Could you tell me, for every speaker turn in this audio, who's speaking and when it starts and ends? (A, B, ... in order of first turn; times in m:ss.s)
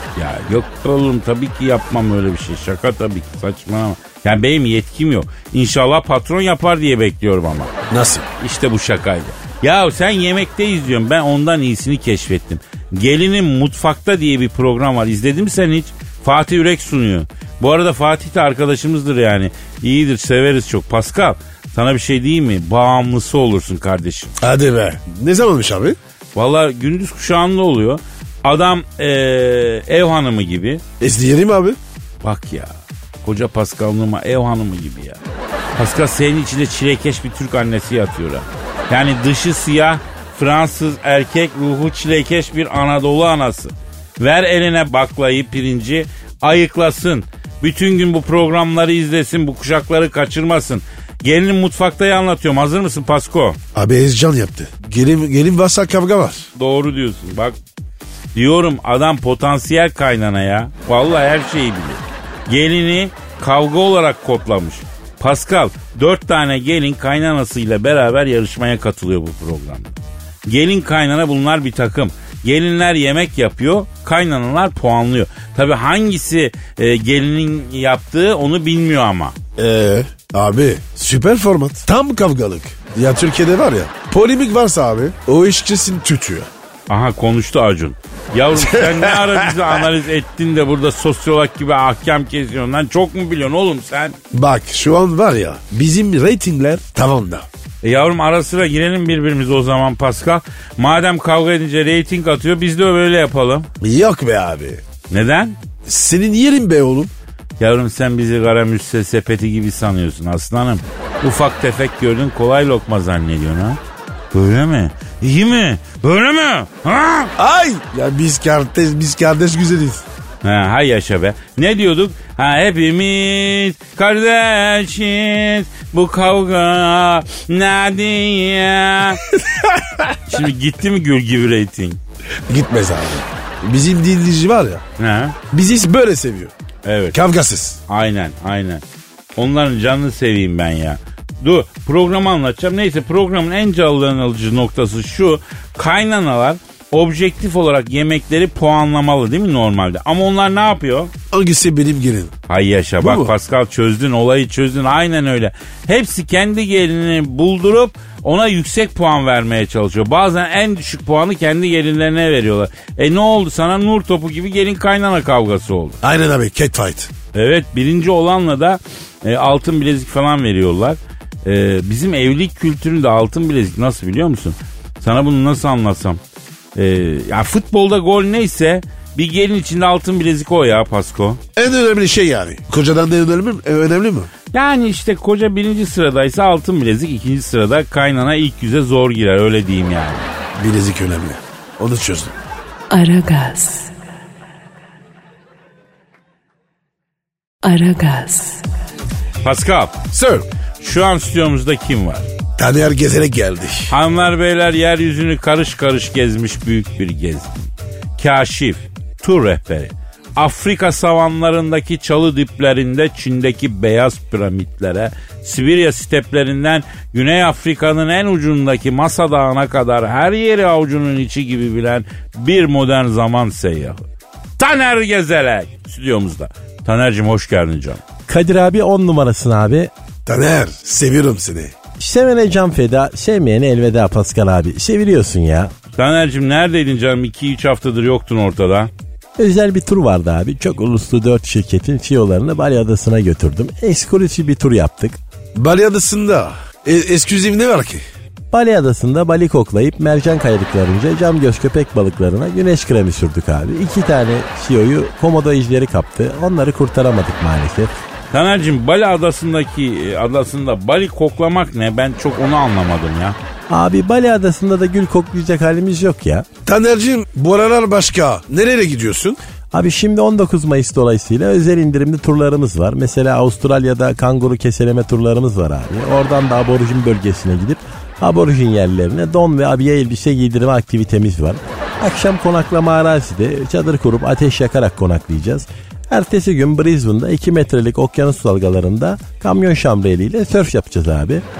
0:00.2-0:07.7 A
0:07.9-0:08.3 B
0:08.4-0:24.3 A
0:24.4-0:26.0 B
0:26.3-0:30.8 A
0:31.0-0:31.8 B
0:32.2-0:35.2 A
0:35.8-0:53.6 A
0:53.7-0:56.5 B
0:56.5-0:57.6 A
0:58.3-1:19.4 A
1:19.6-1:26.5 B
1:26.9-1:34.2 A
1:28.5-1:29.8 B
1:34.3-1:37.5 B
1:37.8-1:43.7 A
1:43.8-1:44.8 B
1:45.1-1:45.6 A
1:45.8-1:47.1 B
1:47.6-1:53.8 A
1:54.3-1:57.3 A
1:57.4-2:00.0 B
2:00.4-2:09.2 A
2:09.3-2:10.1 B
2:10.2-2:12.0 A
2:12.5-2:14.8 B
2:15.0-2:15.4 A
2:15.5-2:16.5 B
2:16.8-2:17.2 A
2:17.1-2:17.8 B
2:17.9-2:18.8 A
2:19.4-2:31.1 A
2:31.3-2:32.3 B
2:32.5-2:46.0 A
2:33.0-2:33.3 B
2:46.0-2:47.1 B
2:47.3-2:56.2 A
2:56.7-3:01.4 A
3:01.6-3:04.3 B
3:04.5-3:10.3 A
3:10.5-3:12.3 B
3:12.9-3:13.9 C
3:17.6-3:18.7 C
3:19.4-3:20.0 A
3:20.1-3:20.5 B
3:20.8-3:22.3 A
3:22.6-3:23.9 B
3:23.9-3:44.0 A
3:44.6-3:48.0 A
3:48.3-3:49.9 D
3:50.2-3:51.7 B
3:52.0-3:55.7 D
3:56.0-3:58.9 A
3:59.4-4:05.2 D
4:05.5-4:08.0 B
4:08.5-4:17.9 D
4:18.3-4:23.4 A
4:23.7-4:26.5 D
4:26.6-4:29.4 B
4:29.7-4:51.4 D